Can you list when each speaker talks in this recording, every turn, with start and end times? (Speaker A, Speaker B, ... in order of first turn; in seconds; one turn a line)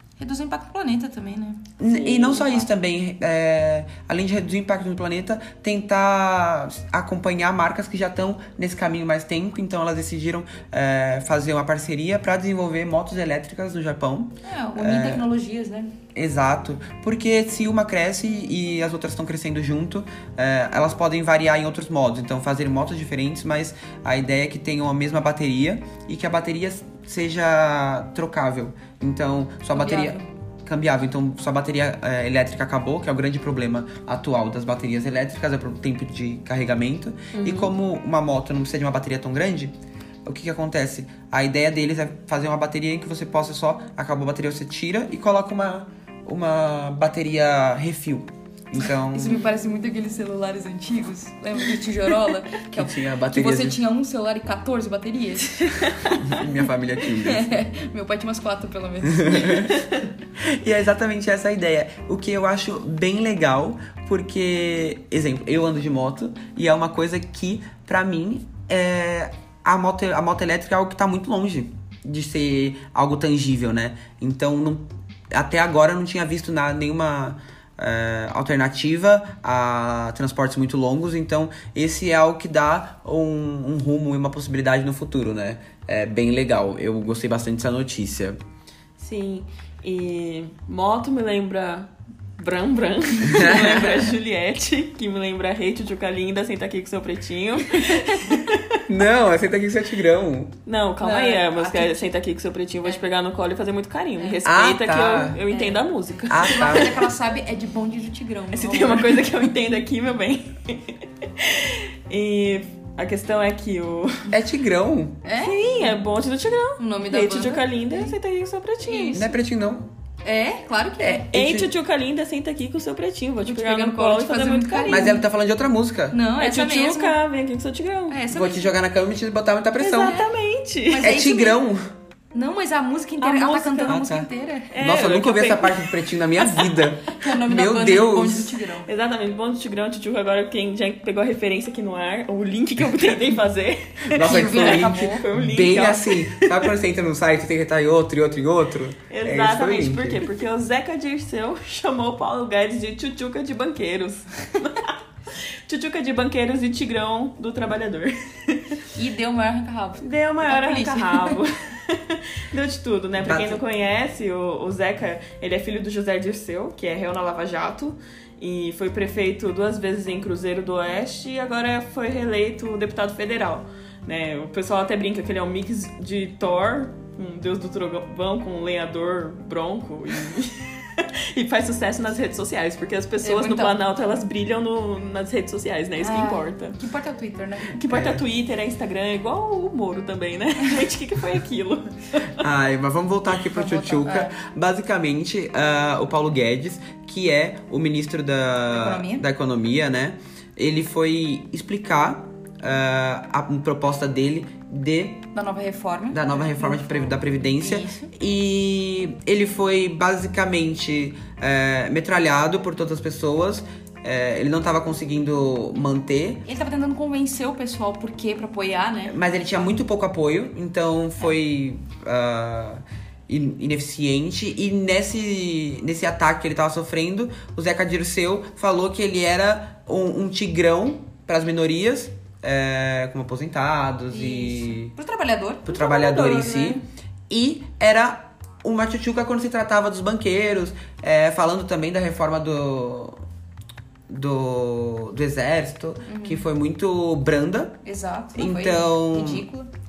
Speaker A: 0.2-1.7
Speaker B: 1.8-15.3
Speaker C: 1.9-2.6
Speaker A: 14.4-15.9
Speaker B: 16.1-39.7
Speaker A: 29.7-30.3
Speaker C: 37.3-37.7
Speaker B: 40.2-49.4
Speaker A: 49.1-56.4
Speaker B: 52.7-53.8
Speaker C: 55.8-56.2
Speaker B: 56.2-57.6
Speaker A: 57.1-59.8
Speaker B: 59.0-59.7
Speaker B: 60.4-88.4
Speaker C: 89.0-98.8
Speaker B: 93.2-94.1
Speaker B: 98.9-100.5
Speaker C: 100.7-107.0
Speaker A: 101.0-102.0
Speaker A: 104.2-104.4
Speaker B: 104.4-105.4
Speaker A: 105.5-105.8
Speaker B: 106.3-107.0
Speaker A: 106.3-109.2
Speaker C: 108.5-114.3
Speaker B: 114.3-115.2
Speaker A: 115.2-115.6
Speaker C: 115.3-119.3
Speaker A: 116.8-118.1
Speaker A: 118.8-119.3
Speaker B: 119.1-119.9
Speaker A: 120.2-121.3
Speaker B: 121.0-121.7
Speaker C: 121.3-125.2
Speaker A: 123.5-125.2
Speaker B: 124.9-126.2
Speaker A: 126.1-127.2
Speaker C: 126.4-128.2
Speaker A: 128.1-128.7
Speaker B: 128.3-130.3
Speaker C: 129.8-131.1
Speaker A: 130.9-131.6
Speaker B: 131.0-131.9
Speaker A: 132.3-134.7
Speaker C: 133.2-134.0
Speaker B: 133.9-138.6
Speaker C: 134.7-136.9
Speaker A: 137.1-138.9
Speaker C: 138.8-146.7
Speaker B: 144.1-150.3
Speaker A: 144.1-145.2
Speaker C: 149.1-158.8
Speaker A: 158.9-161.4
Speaker C: 160.0-186.8
Speaker B: 163.2-163.6
Speaker A: 183.2-183.8
Speaker A: 186.0-187.8
Speaker C: 187.7-192.4
Speaker B: 187.9-188.2
Speaker B: 192.4-205.2
Speaker A: 193.5-194.3
Speaker A: 198.7-199.2
Speaker A: 205.3-208.1
Speaker B: 206.1-216.4
Speaker A: 216.4-219.2
Speaker B: 219.1-234.9
Speaker A: 234.1-235.7
Speaker B: 235.6-243.2
Speaker C: 235.7-236.8
Speaker B: 244.1-247.8
Speaker A: 246.0-246.5
Speaker A: 247.8-249.7
Speaker B: 248.3-249.4